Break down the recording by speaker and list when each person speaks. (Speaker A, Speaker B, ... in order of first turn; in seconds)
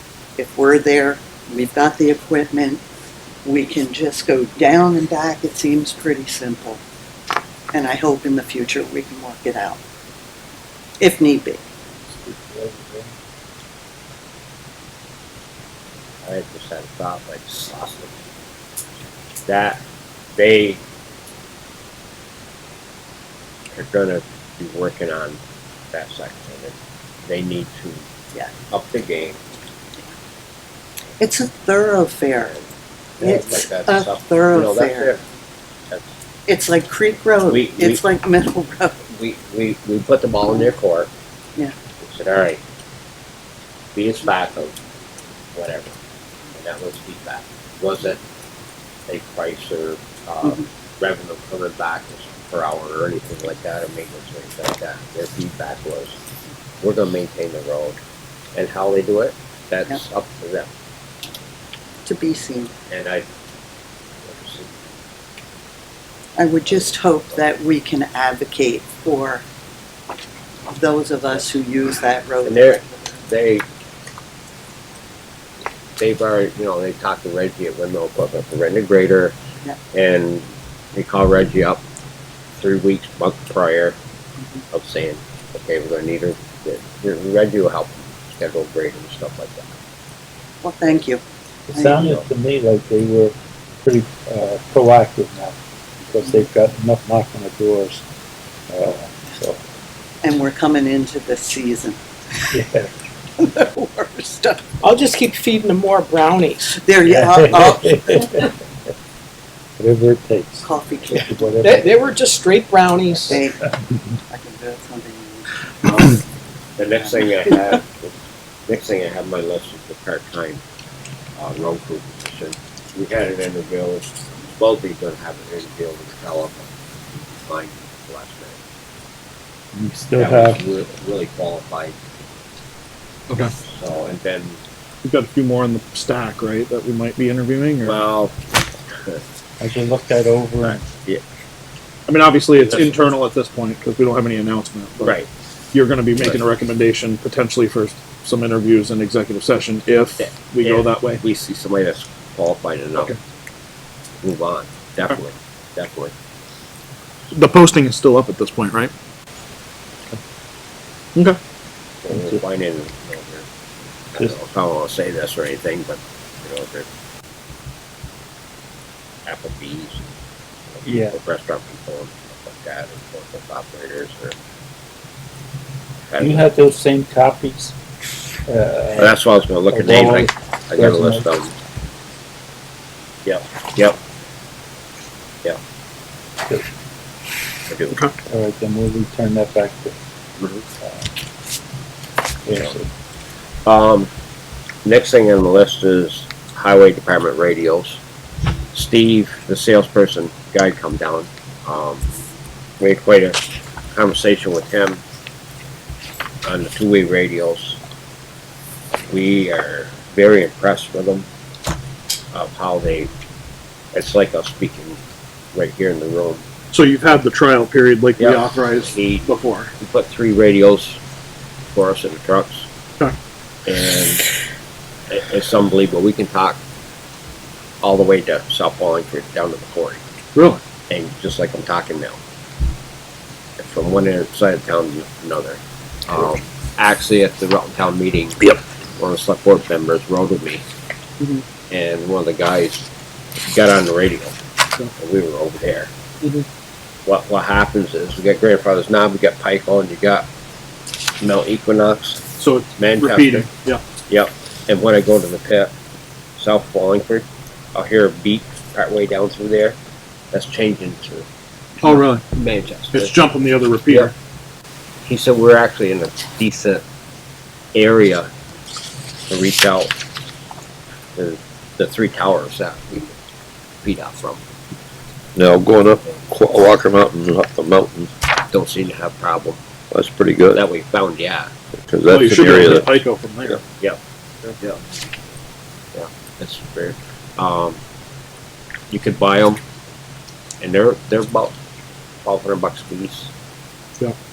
Speaker A: 0.4-2.8, 3.5-6.8, 7.7-9.8, 11.0-11.6, 31.2-32.5, 33.2-35.2, 36.5-39.0, 62.1-62.7, 66.4-69.5, 70.7-73.2, 90.6-91.2, 91.7-92.1, 100.2-102.0, 103.4-104.8, 106.7-108.5, 110.6-111.8, 113.3-113.6, 114.3-115.5, 117.0-117.6
Speaker B: 12.1-13.2, 91.7-98.0, 98.7-99.6, 102.5-102.9, 107.1-108.5, 109.8-111.8, 129.7-130.6, 139.6-140.9, 170.8-171.2, 176.2-177.8, 178.5-181.3, 188.3-189.9, 190.8-191.1, 192.5-192.9
Speaker C: 16.2-18.1, 19.5-19.8, 20.4-20.8, 23.8-25.4, 25.9-26.7, 27.3-28.0, 28.7-29.4, 33.2-35.2, 37.5-38.0, 39.1-41.1, 42.0-42.6, 44.0-44.8, 45.5-46.0, 46.6-48.2, 49.1-56.2, 56.8-58.0, 58.5-60.7, 62.9-63.2, 64.2-64.8, 72.5-73.7, 76.0-79.3, 79.9-81.8, 82.6-84.0, 84.7-89.8, 115.8-116.2, 116.8-118.1, 118.7-120.6, 121.4-126.7, 127.5-128.6, 130.2-132.0, 133.8-134.6, 137.8-138.4, 145.0-145.3, 150.2-153.2, 154.2-156.1, 162.0-163.5, 164.1-166.9, 169.3-170.0, 170.7-174.3, 176.1-176.5, 179.0-181.5, 183.2-184.0, 187.7-188.0, 193.7-194.1, 194.8-198.0, 198.7-202.1, 202.8-203.4, 203.9-205.0, 206.4-207.8, 209.1-211.2, 212.3-213.1, 213.9-215.0, 215.6-216.4, 218.2-219.3, 219.8-221.0, 221.7-222.7, 223.7-224.3, 225.1-226.6, 227.8-230.0, 230.9-232.2, 233.6-240.6, 241.7-242.9, 243.5-244.4, 245.0-245.9, 247.1-250.3, 251.2-252.2, 252.8-253.5, 254.1-255.7, 256.4-259.8, 260.3-261.2, 261.8-263.1, 265.1-266.8, 267.8-268.3, 269.3-269.9, 271.2-273.1, 273.8-274.4, 278.5-279.6, 280.5-281.5, 285.9-287.8, 288.9-289.6, 290.6-291.6, 292.2-293.3
Speaker D: 104.8-106.8, 111.2-113.4
Speaker E: 135.0-138.0, 142.1-145.2, 145.7-151.2, 157.3-158.9, 216.7-219.7, 230.3-230.6, 252.4-253.8, 261.8-262.3, 262.9-264.1, 282.1-283.6
Speaker F: 275.4-278.1, 279.9-280.6, 281.8-282.9